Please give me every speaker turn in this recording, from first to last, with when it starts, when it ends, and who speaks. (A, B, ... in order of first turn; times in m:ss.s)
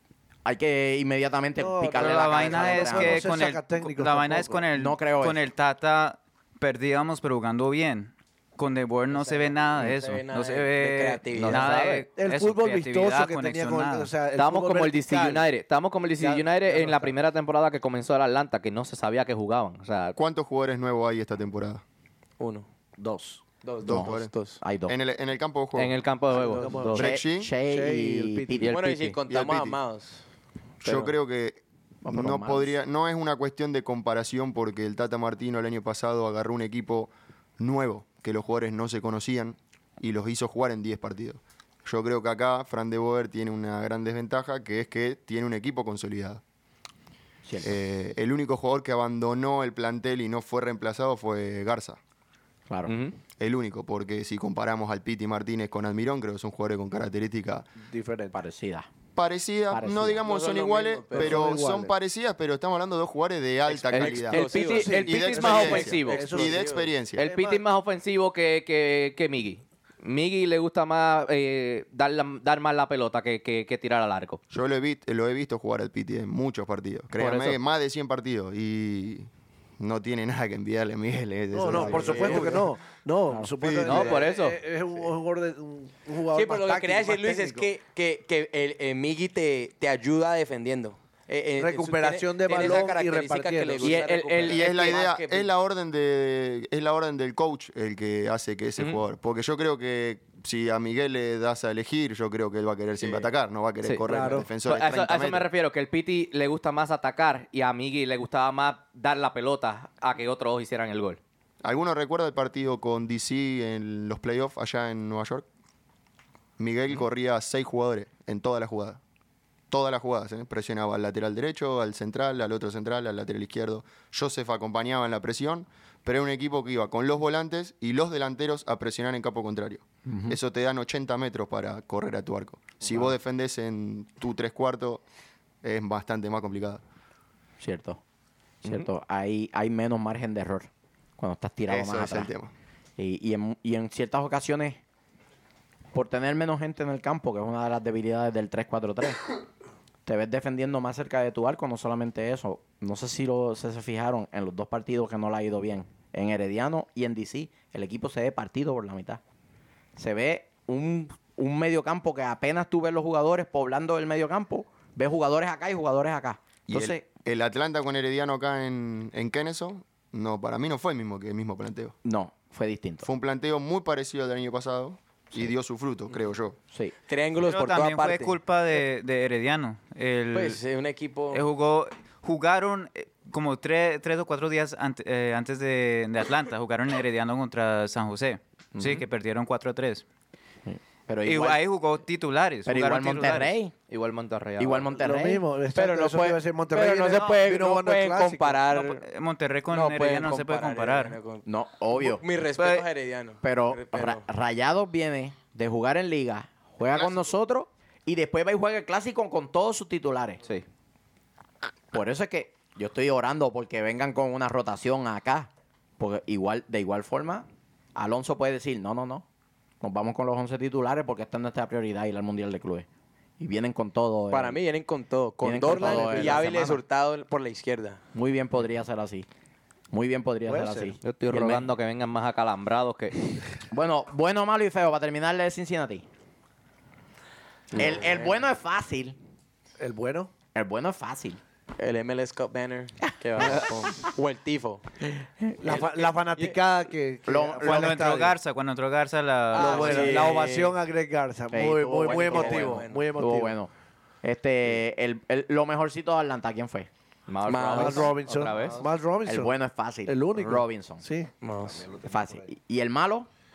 0:00.4-0:03.3 A
0:01.6-0:04.7 B
0:02.0-0:14.1 C
0:04.7-0:05.4 A
0:09.1-0:11.7 D
0:11.4-0:12.1 E
0:12.1-0:15.4 B
0:14.4-0:20.2 E
0:16.2-0:17.1 B
0:20.2-0:21.8 F
0:22.4-0:22.7 D
0:23.0-0:23.4 B
0:23.6-0:24.6 D
0:23.8-0:24.3 F
0:23.9-0:25.0 A
0:24.9-0:26.0 F
0:25.8-0:27.1 E
0:26.3-0:27.1 B
0:26.9-0:27.5 F
0:27.0-0:28.8 A
0:27.6-0:28.7 B
0:28.6-0:29.2 E
0:28.7-0:30.2 D
0:29.3-0:29.8 F
0:30.8-0:46.4 F
0:32.0-0:32.8 A
0:47.5-0:47.7 A
0:47.6-0:52.0 F
0:52.7-0:52.9 A
0:52.9-0:53.2 E
0:53.4-0:57.7 F
0:57.8-0:58.4 B
0:58.3-0:58.9 A
0:59.2-1:07.3 F
0:59.7-1:00.2 A
1:00.2-1:01.5 D
1:01.1-1:01.9 B
1:03.8-1:06.9 D
1:03.9-1:06.4 E
1:04.3-1:07.6 B
1:07.2-1:14.4 E
1:14.5-1:22.7 F
1:17.2-1:17.6 E
1:21.5-1:27.7 B
1:21.9-1:22.5 D
1:23.6-1:24.1 F
1:23.8-1:24.6 E
1:26.3-1:35.5 D
1:31.6-1:34.1 B
1:33.8-1:34.9 E
1:34.5-1:45.5 F
1:43.8-1:51.2 E
1:44.1-1:44.5 B
1:51.6-1:55.5 F
1:56.6-1:59.0 F
1:59.7-2:15.0 F
2:10.1-2:10.4 A
2:15.6-2:16.8 F
2:17.6-2:18.0 A
2:18.6-2:22.3 A
2:21.7-2:22.5 F
2:23.0-2:24.8 A
2:25.9-2:29.2 A
2:30.1-2:39.2 A
2:40.0-2:47.0 A
2:46.7-2:52.0 F
2:52.0-2:53.1 A
2:53.0-2:56.6 F
2:57.1-2:58.4 D
2:57.4-3:00.6 C
3:00.3-3:01.4 D
3:01.3-3:10.0 C
3:08.8-3:09.0 A
3:10.7-3:11.6 A
3:11.2-3:13.6 C
3:12.7-3:13.7 A
3:13.9-3:14.9 E
3:14.6-3:15.4 A
3:15.0-3:18.7 B
3:15.7-3:19.0 D
3:17.1-3:17.4 C
3:18.7-3:21.2 C
3:19.7-3:24.2 D
3:21.4-3:22.2 A
3:22.6-3:22.9 C
3:23.4-3:30.4 A
3:27.0-3:27.3 F
3:31.9-3:39.2 A
3:39.8-3:42.9 A
3:43.4-3:44.6 A
3:44.3-3:48.0 D
3:45.4-3:46.8 A
3:45.8-3:46.4 B
3:48.1-3:49.3 A
3:49.9-3:51.7 A
3:50.5-3:51.0 B
3:51.0-3:53.3 E
3:53.7-3:56.0 A
3:57.7-3:59.2 A
3:57.7-3:58.4 D
3:59.8-4:00.3 B
4:00.5-4:01.4 A
4:01.8-4:04.8 D
4:03.3-4:03.9 E
4:03.4-4:03.7 A
4:05.6-4:08.4 B
4:05.6-4:06.6 D
4:07.3-4:08.0 A
4:07.6-4:10.3 C
4:09.5-4:10.8 D
4:09.5-4:13.6 B
4:11.5-4:13.7 A
4:12.0-4:13.1 D
4:14.2-4:16.9 A
4:17.3-4:18.8 E
4:17.5-4:18.8 D
4:17.7-4:19.5 B
4:19.3-4:21.0 A
4:20.1-4:22.4 B
4:21.4-4:21.8 D
4:22.1-4:23.3 A